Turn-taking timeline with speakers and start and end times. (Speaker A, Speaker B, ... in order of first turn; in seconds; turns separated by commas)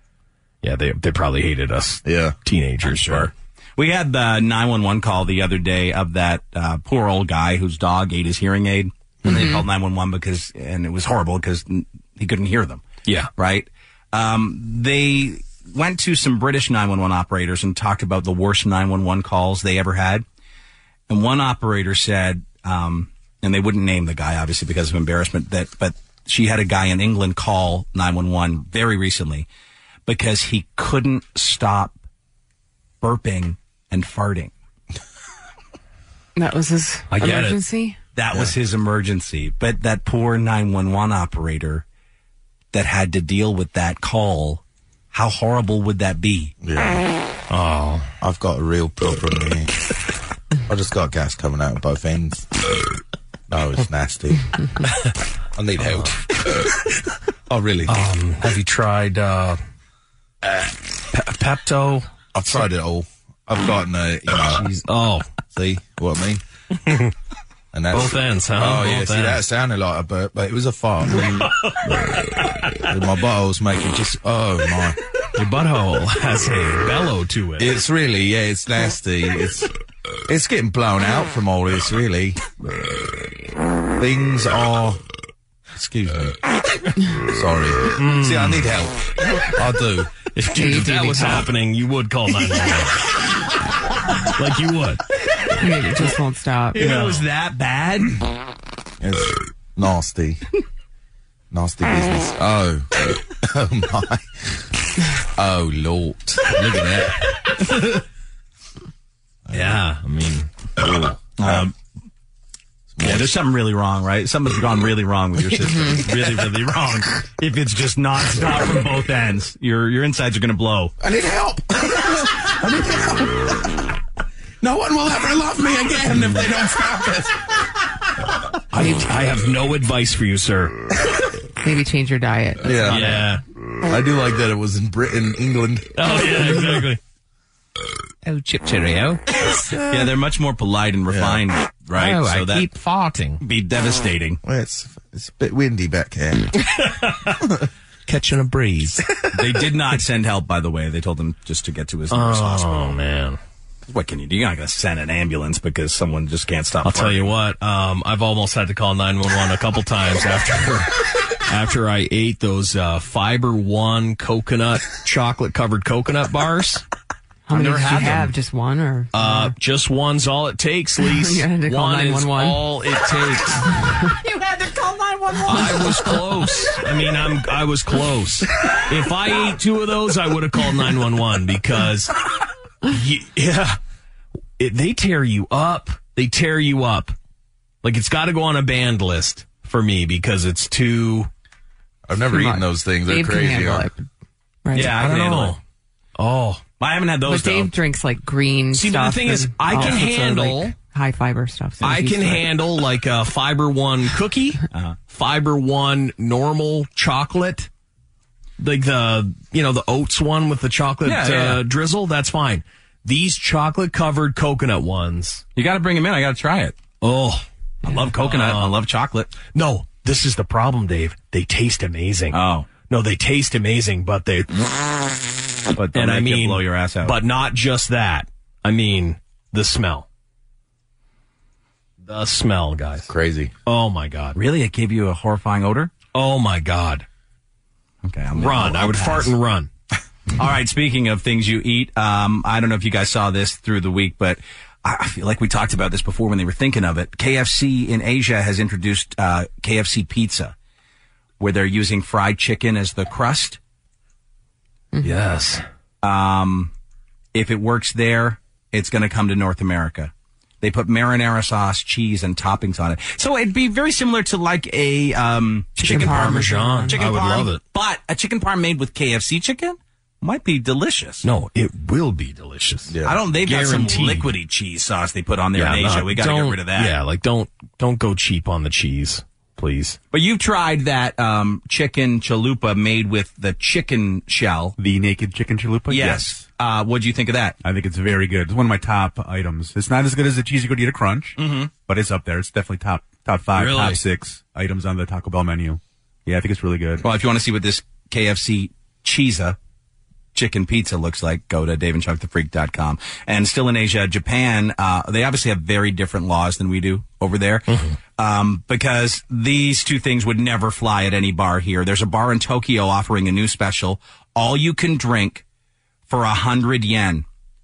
Speaker A: 0.6-3.3, Speaker B: 2.0-2.4, Speaker C: 2.9-12.8, Speaker B: 3.0-3.3, Speaker C: 13.4-20.2, Speaker C: 21.1-29.5, Speaker C: 30.1-32.0, Speaker C: 33.0-34.5, Speaker D: 36.4-38.0, Speaker A: 37.1-37.6, Speaker C: 38.2-41.8, Speaker C: 42.7-46.5, Speaker B: 46.6-47.0, Speaker A: 47.5-48.1, Speaker B: 48.2-49.7, Speaker B: 50.7-52.5, Speaker B: 53.5-54.4, Speaker B: 55.6-56.2, Speaker B: 57.5-58.0, Speaker A: 57.9-59.6, Speaker A: 61.1-62.7, Speaker B: 62.3-64.7, Speaker A: 64.5-65.3, Speaker B: 65.5-66.4, Speaker B: 67.7-71.5, Speaker A: 67.9-69.4, Speaker B: 72.9-75.0, Speaker A: 75.4-77.8, Speaker B: 77.6-79.7, Speaker B: 80.3-82.4, Speaker B: 84.0-85.0, Speaker B: 85.8-86.4, Speaker B: 87.3-89.0, Speaker A: 88.0-88.7, Speaker B: 89.5-90.3, Speaker A: 90.3-93.1, Speaker D: 90.6-91.3, Speaker A: 94.3-95.0, Speaker D: 95.6-96.8, Speaker C: 96.7-98.2, Speaker B: 99.0-100.4, Speaker B: 101.5-104.3, Speaker B: 105.4-108.0, Speaker B: 109.5-109.8, Speaker A: 109.5-110.5, Speaker B: 110.8-111.7, Speaker C: 111.4-111.7, Speaker B: 113.0-113.3, Speaker C: 113.0-120.9, Speaker B: 121.0-123.6, Speaker B: 124.6-127.4, Speaker A: 128.7-130.8, Speaker D: 131.6-133.0, Speaker B: 132.6-133.2, Speaker A: 132.8-133.4, Speaker B: 133.9-136.9, Speaker A: 136.0-137.0, Speaker A: 138.3-139.2, Speaker B: 139.4-139.8, Speaker C: 139.9-142.7, Speaker B: 141.1-141.4, Speaker A: 141.9-143.4, Speaker C: 143.4-144.4, Speaker B: 144.4-146.6, Speaker A: 148.1-149.0, Speaker C: 149.3-153.0, Speaker A: 152.1-153.4, Speaker C: 153.8-157.3, Speaker A: 156.8-166.8, Speaker D: 167.5-169.6, Speaker C: 167.6-168.3, Speaker A: 167.6-168.2, Speaker A: 169.1-173.7, Speaker D: 171.0-172.7, Speaker D: 173.8-174.1, Speaker A: 175.4-182.1, Speaker D: 175.6-176.1, Speaker A: 182.9-183.8, Speaker A: 184.6-187.2, Speaker A: 187.8-191.3, Speaker B: 192.1-193.9, Speaker D: 192.3-194.1, Speaker D: 194.7-194.9, Speaker C: 194.7-195.6, Speaker A: 194.7-195.6, Speaker A: 196.2-196.6, Speaker C: 196.8-197.8, Speaker D: 197.3-202.5, Speaker A: 198.7-200.8, Speaker A: 201.8-207.7, Speaker C: 204.7-205.0, Speaker A: 208.6-215.4, Speaker C: 211.1-211.6, Speaker C: 215.6-216.8, Speaker A: 217.0-218.8, Speaker C: 217.8-219.3, Speaker A: 219.4-224.6, Speaker C: 222.3-222.7, Speaker C: 225.8-227.2, Speaker A: 225.9-230.1, Speaker A: 232.0-233.1, Speaker B: 233.1-233.5, Speaker A: 233.7-234.4, Speaker C: 234.3-235.9, Speaker A: 236.2-237.1, Speaker C: 238.0-239.3, Speaker A: 238.3-239.7, Speaker C: 240.4-250.5, Speaker C: 251.4-253.6, Speaker A: 255.0-255.6, Speaker C: 256.0-256.7, Speaker C: 257.4-271.3, Speaker D: 265.8-267.0, Speaker A: 265.9-267.6, Speaker A: 271.2-274.3, Speaker B: 272.9-273.2, Speaker C: 273.0-277.0, Speaker A: 275.6-280.0, Speaker C: 280.1-284.8, Speaker E: 284.8-286.4, Speaker C: 285.9-287.6, Speaker E: 287.6-297.0, Speaker C: 291.4-291.7, Speaker A: 293.6-294.0, Speaker C: 297.0-299.6, Speaker C: 300.4-315.4, Speaker A: 307.7-308.0, Speaker C: 316.1-317.2